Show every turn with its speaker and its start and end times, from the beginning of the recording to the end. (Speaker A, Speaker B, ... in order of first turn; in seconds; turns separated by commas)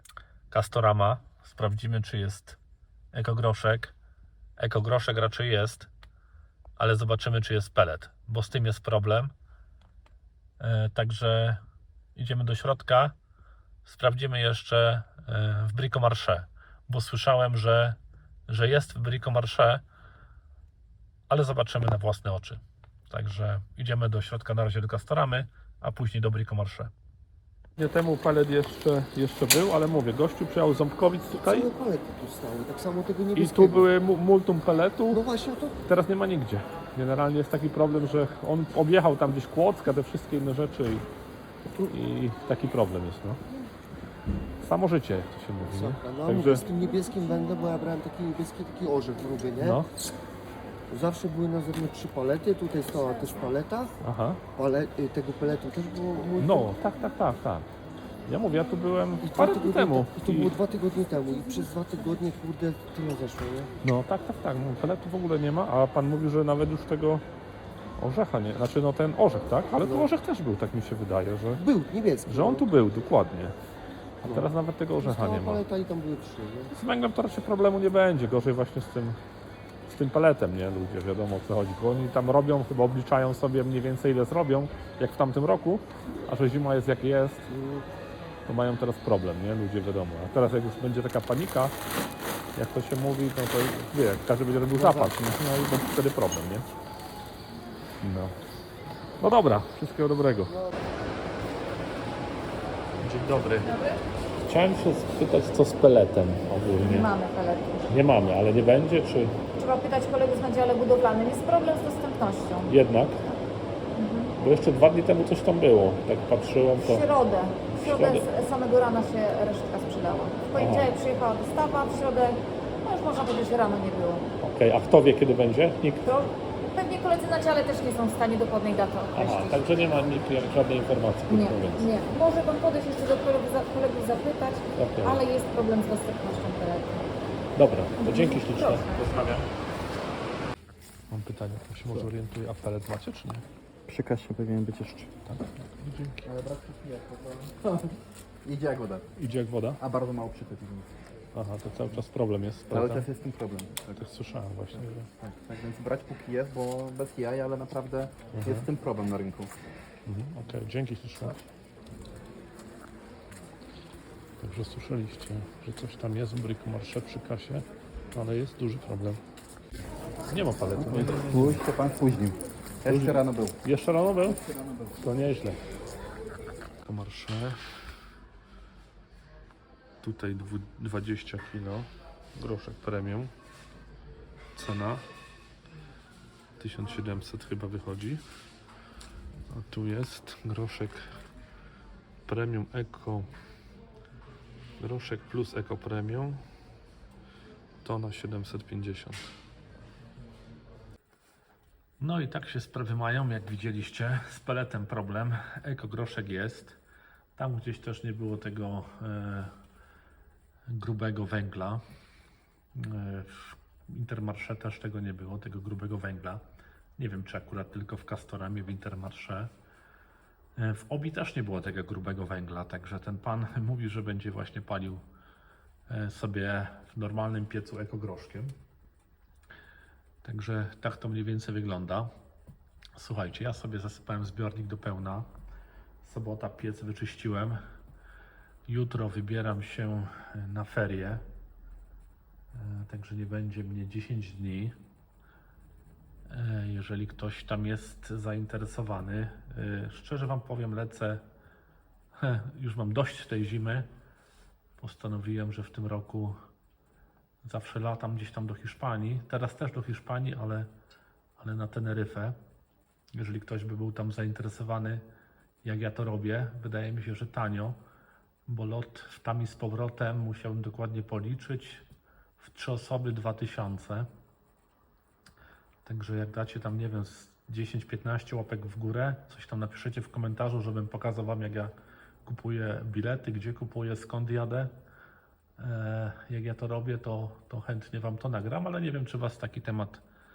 Speaker A: 0.5-2.6, Speaker A: 3.1-3.9, Speaker A: 4.6-5.9, Speaker A: 6.8-9.3, Speaker A: 10.6-11.6, Speaker A: 12.2-13.2, Speaker A: 13.8-18.0, Speaker A: 18.5-19.8, Speaker A: 21.3-26.9, Speaker A: 27.8-31.7, Speaker B: 31.4-33.9, Speaker A: 33.4-35.2, Speaker B: 35.1-35.8, Speaker A: 35.9-41.1, Speaker A: 41.9-43.4, Speaker A: 44.6-46.6, Speaker B: 45.6-49.8, Speaker A: 49.6-49.9, Speaker B: 50.9-53.9, Speaker A: 54.0-54.4, Speaker B: 54.6-56.8, Speaker A: 56.4-57.7, Speaker A: 58.3-60.5, Speaker B: 59.2-63.7, Speaker A: 63.8-67.2, Speaker A: 68.0-71.6, Speaker B: 69.8-70.1, Speaker B: 71.6-72.7, Speaker A: 72.3-73.5, Speaker B: 74.2-76.7, Speaker A: 74.2-75.6, Speaker A: 76.7-79.2, Speaker A: 79.9-87.5, Speaker B: 87.5-87.9, Speaker A: 88.5-91.8, Speaker A: 92.6-96.7, Speaker B: 94.7-95.2, Speaker A: 98.0-98.3, Speaker A: 99.2-100.5, Speaker A: 103.0-103.8, Speaker A: 104.4-107.1, Speaker C: 106.8-107.9, Speaker A: 107.9-109.4, Speaker C: 109.6-112.7, Speaker A: 112.7-113.2, Speaker C: 114.0-114.3, Speaker A: 114.4-117.1, Speaker C: 116.8-124.2, Speaker A: 117.7-118.3, Speaker A: 120.5-120.9, Speaker A: 124.4-126.1, Speaker C: 126.0-129.8, Speaker A: 129.1-131.9, Speaker C: 131.3-137.1, Speaker A: 134.8-135.2, Speaker A: 137.6-139.5, Speaker C: 138.0-139.1, Speaker A: 141.1-143.4, Speaker D: 143.9-145.1, Speaker A: 145.3-146.3, Speaker D: 146.2-149.1, Speaker A: 149.2-149.8, Speaker D: 149.8-150.9, Speaker A: 151.3-153.1, Speaker D: 152.7-153.8, Speaker A: 153.9-155.1, Speaker D: 155.2-159.5, Speaker A: 158.3-158.7, Speaker A: 160.1-161.4, Speaker A: 164.4-169.2, Speaker A: 170.3-171.7, Speaker D: 170.8-173.6, Speaker A: 172.9-174.4, Speaker D: 174.2-175.0, Speaker A: 175.0-175.6, Speaker A: 176.8-177.6, Speaker A: 180.0-183.3, Speaker A: 184.6-185.1, Speaker A: 186.6-188.2, Speaker A: 189.5-191.0, Speaker A: 192.3-193.3, Speaker A: 194.8-196.4, Speaker A: 197.8-199.2, Speaker A: 202.0-206.8, Speaker A: 207.4-209.5, Speaker A: 210.7-211.8, Speaker A: 212.8-216.4, Speaker A: 217.0-219.5, Speaker A: 220.6-225.0, Speaker A: 225.9-228.5, Speaker A: 230.2-232.1, Speaker A: 233.0-235.3, Speaker A: 236.0-237.6, Speaker A: 238.7-241.2, Speaker A: 242.5-244.8, Speaker A: 246.3-251.2, Speaker A: 252.2-253.9, Speaker A: 254.8-256.4, Speaker A: 257.4-260.7, Speaker A: 261.4-262.4, Speaker A: 263.1-265.0, Speaker A: 265.6-267.8, Speaker A: 268.5-271.9, Speaker A: 272.4-274.1, Speaker A: 275.9-281.7, Speaker A: 282.2-284.8, Speaker A: 285.6-290.0